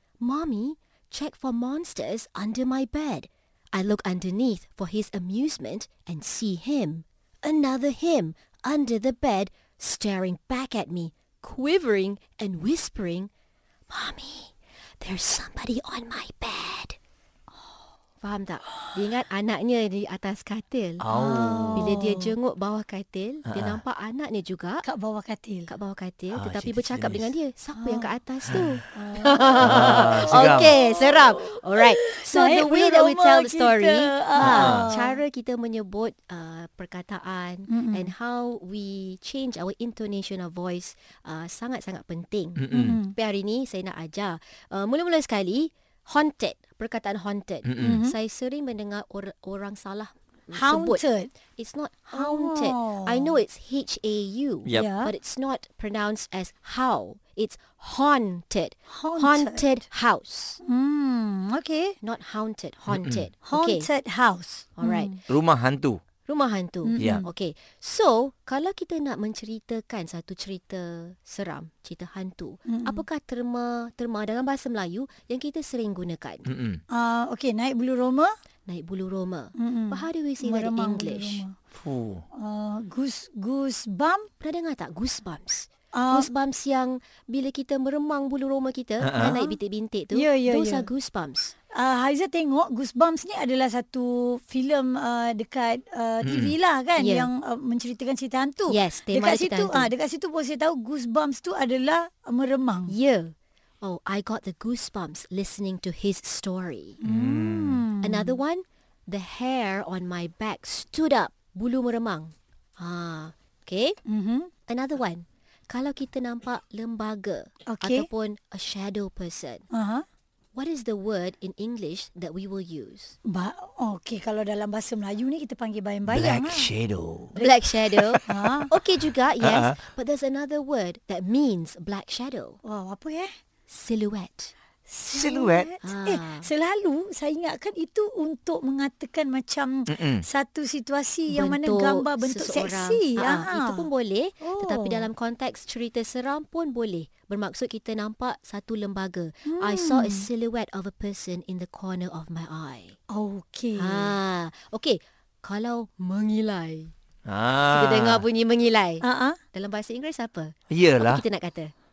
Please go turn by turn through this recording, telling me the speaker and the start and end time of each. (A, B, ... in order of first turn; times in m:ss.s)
0:00.2-0:13.3 A
0:13.9-0:17.0 A
0:18.2-0:21.1 A
0:21.0-0:21.9 B
0:21.1-0:22.3 C
0:21.7-0:24.8 A
0:23.4-0:23.8 B
0:24.8-0:25.7 C
0:25.7-1:00.6 A
0:26.3-0:27.3 B
0:27.8-0:28.1 C
0:28.5-0:28.8 B
0:28.9-0:35.2 C
0:29.6-0:30.7 B
0:34.4-0:34.9 B
0:37.7-0:38.1 C
0:42.6-0:43.0 B
0:42.7-0:43.1 C
0:47.6-0:48.0 B
0:47.8-0:48.1 C
0:50.5-0:51.3 C
0:52.1-0:53.4 C
0:54.7-0:55.1 C
0:58.9-0:59.6 C
1:00.6-1:01.9 C
1:02.0-1:03.9 A
1:02.9-1:03.2 B
1:03.4-1:05.2 C
1:04.8-1:05.2 A
1:05.3-1:06.0 B
1:06.2-1:16.5 A
1:06.8-1:07.3 C
1:07.0-1:07.2 B
1:12.7-1:13.0 C
1:16.4-1:16.8 B
1:16.9-1:18.3 C
1:18.7-1:21.4 A
1:19.6-1:21.5 C
1:21.7-1:22.2 B
1:22.3-1:24.3 C
1:24.4-1:31.5 A
1:25.9-1:26.3 C
1:29.0-1:29.4 B
1:29.2-1:29.5 C
1:30.1-1:30.9 C
1:31.7-1:42.9 C
1:36.2-1:36.5 B
1:37.0-1:37.3 A
1:38.7-1:39.9 A
1:42.9-1:47.0 A
1:47.0-1:48.4 C
1:47.0-1:47.8 B
1:48.0-1:54.0 A
1:54.0-1:54.5 C
1:54.7-1:59.6 A
1:57.7-1:58.1 C
1:59.7-2:00.0 C
2:00.5-2:03.2 A
2:03.2-2:06.7 C
2:06.1-2:07.4 B
2:07.4-2:12.6 A
2:07.9-2:08.2 B
2:08.3-2:08.7 C
2:09.4-2:09.8 B
2:12.6-2:13.3 C
2:13.7-2:14.5 A
2:14.9-2:23.9 C
2:15.1-2:15.7 B
2:15.8-2:16.5 A
2:19.9-2:20.2 B
2:21.3-2:33.0 A
2:24.4-2:25.1 C
2:29.4-2:30.3 C
2:33.1-2:34.1 C
2:33.8-2:36.9 A
2:37.2-2:38.2 B
2:37.7-2:41.7 A
2:39.0-2:39.4 C
2:40.7-2:41.2 B